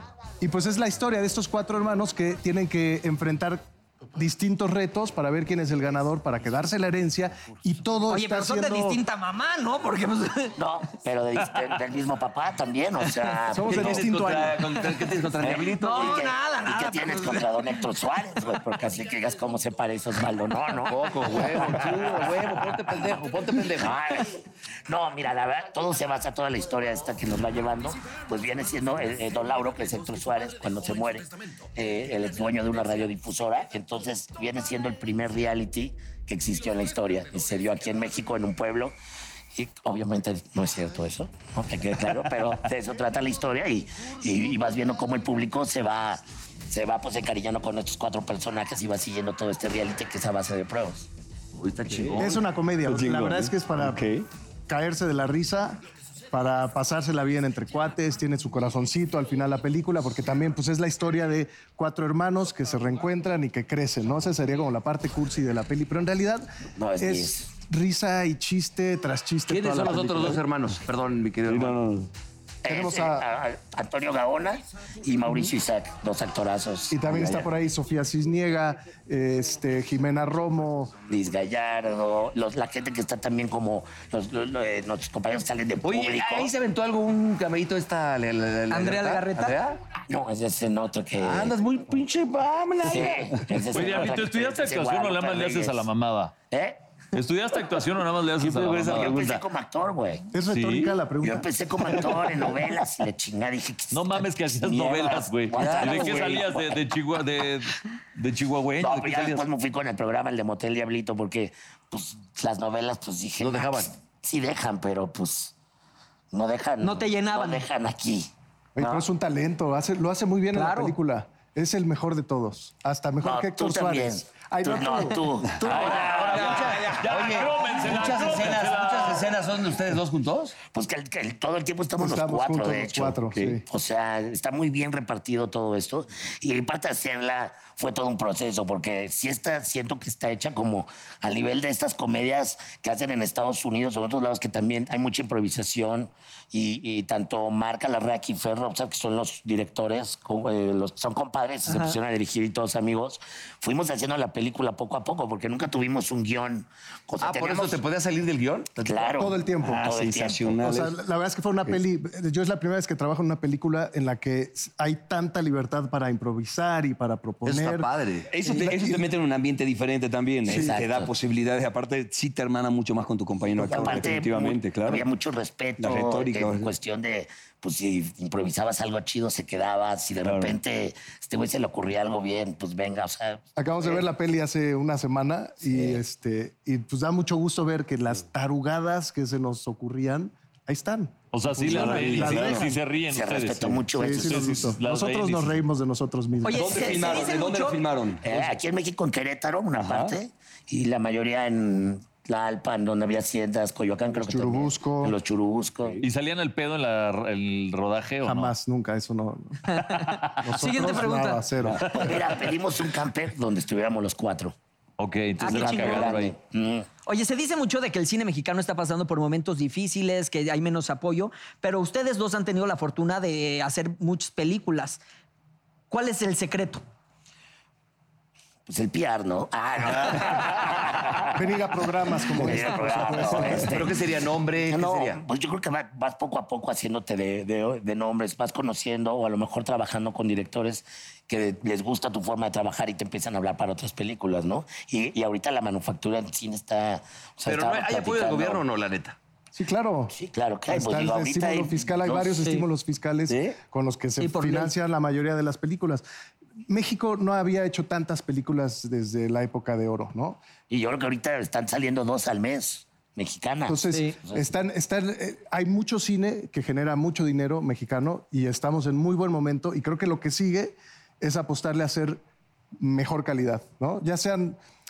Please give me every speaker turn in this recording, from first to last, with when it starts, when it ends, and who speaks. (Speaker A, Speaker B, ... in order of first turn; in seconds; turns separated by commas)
Speaker A: 0.4-3.6, Speaker A: 4.1-9.0, Speaker B: 8.1-10.6, Speaker C: 10.6-14.1, Speaker A: 13.5-14.7, Speaker D: 13.6-16.2, Speaker C: 15.4-21.1, Speaker B: 15.8-17.5, Speaker D: 20.9-23.9, Speaker C: 23.7-39.0, Speaker C: 39.5-51.1, Speaker D: 51.5-52.4, Speaker E: 51.9-52.3, Speaker A: 52.1-54.0, Speaker E: 52.9-54.3, Speaker A: 54.7-55.8, Speaker A: 56.3-66.5, Speaker C: 66.8-67.5, Speaker A: 67.0-70.4, Speaker D: 69.5-71.8, Speaker E: 71.5-72.1, Speaker C: 72.6-77.5, Speaker A: 72.7-73.2, Speaker A: 76.9-80.9, Speaker C: 81.1-86.5, Speaker D: 85.8-89.8, Speaker B: 88.7-89.6, Speaker C: 90.1-91.5, Speaker D: 91.2-93.4, Speaker E: 92.3-93.1, Speaker C: 92.8-95.9, Speaker F: 93.7-96.3, Speaker C: 96.5-96.8, Speaker F: 97.1-99.2, Speaker D: 98.4-99.4, Speaker C: 98.9-100.3, Speaker A: 100.3-102.1, Speaker F: 100.5-100.9, Speaker C: 101.2-106.8, Speaker F: 103.9-109.4, Speaker D: 105.5-106.6, Speaker C: 108.8-115.5, Speaker D: 113.4-113.9, Speaker C: 116.3-119.0, Speaker B: 116.8-117.7, Speaker A: 118.8-125.7, Speaker B: 120.5-121.0, Speaker C: 123.2-126.5, Speaker F: 125.6-129.3, Speaker D: 125.7-130.6, Speaker C: 130.6-157.8, Speaker A: 132.0-133.6, Speaker E: 133.3-133.6, Speaker D: 157.2-158.9, Speaker C: 158.8-160.5, Speaker A: 158.9-169.0, Speaker E: 159.7-160.9, Speaker D: 160.1-160.4, Speaker D: 167.4-168.3, Speaker E: 168.3-175.0, Speaker C: 170.5-171.1, Speaker A: 170.5-170.8, Speaker A: 173.6-174.2, Speaker C: 173.7-184.1, Speaker E: 175.8-176.7, Speaker A: 183.6-192.8, Speaker C: 185.7-186.0, Speaker F: 191.3-195.7, Speaker D: 191.7-192.4, Speaker E: 191.8-192.6, Speaker C: 193.1-194.5, Speaker A: 193.9-196.8, Speaker B: 196.4-197.8, Speaker D: 196.5-198.4, Speaker E: 196.6-198.1, Speaker C: 198.2-206.0, Speaker A: 204.1-205.2, Speaker F: 206.0-208.5, Speaker A: 208.2-209.6, Speaker B: 209.7-211.4, Speaker F: 209.9-210.4, Speaker A: 210.4-211.8, Speaker C: 211.7-214.5, Speaker F: 211.8-212.2, Speaker F: 215.0-216.3, Speaker B: 215.4-216.1, Speaker C: 215.4-216.9, Speaker B: 217.1-225.0, Speaker B: 225.9-226.8, Speaker C: 228.7-231.4, Speaker A: 231.3-233.8, Speaker C: 232.3-234.1, Speaker D: 233.5-235.2, Speaker C: 234.7-248.6, Speaker D: 247.4-249.2, Speaker A: 249.5-250.2, Speaker C: 250.1-252.4, Speaker A: 250.7-256.0, Speaker B: 252.4-252.7, Speaker D: 253.3-253.6, Speaker B: 254.2-254.7, Speaker A: 256.7-260.4, Speaker C: 260.7-264.5, Speaker A: 263.7-272.2, Speaker B: 263.9-264.1, Speaker A: 272.8-274.6